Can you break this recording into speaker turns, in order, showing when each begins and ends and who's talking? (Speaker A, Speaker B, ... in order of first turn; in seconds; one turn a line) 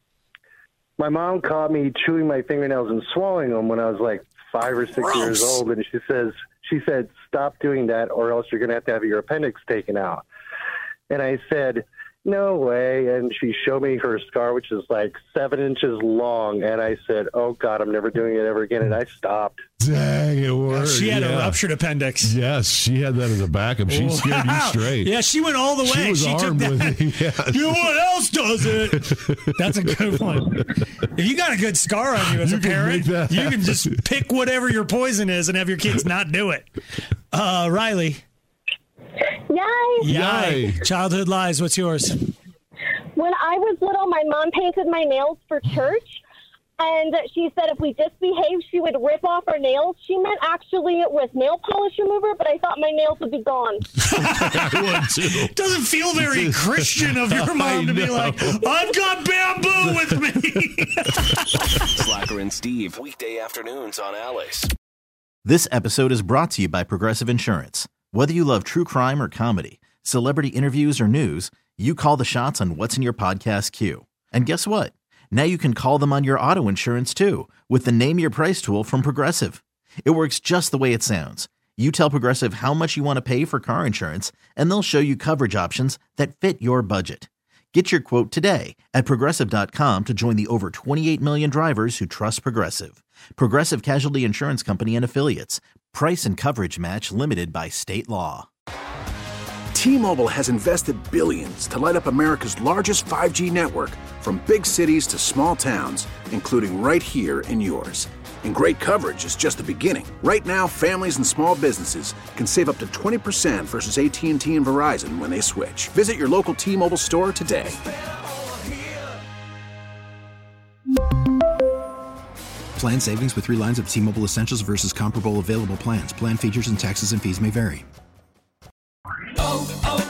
Speaker A: 1.0-10.3
Speaker B: 5.0-5.6
Speaker A: 11.1-19.6
Speaker C: 19.8-21.6
Speaker B: 20.7-22.4
Speaker C: 22.2-25.1
Speaker B: 23.9-36.7
Speaker C: 25.8-27.9
Speaker C: 28.7-29.7
Speaker C: 32.3-33.9
Speaker B: 37.3-38.2
Speaker D: 39.5-40.1
Speaker B: 40.0-42.2
Speaker C: 40.0-40.8
Speaker D: 43.1-46.2
Speaker D: 46.8-53.9
Speaker B: 54.0-61.9
Speaker C: 54.1-58.6
Speaker C: 59.8-60.2
Speaker E: 62.0-64.7
Speaker F: 65.5-98.5
Speaker G: 99.7-117.8
Speaker H: 122.8-127.8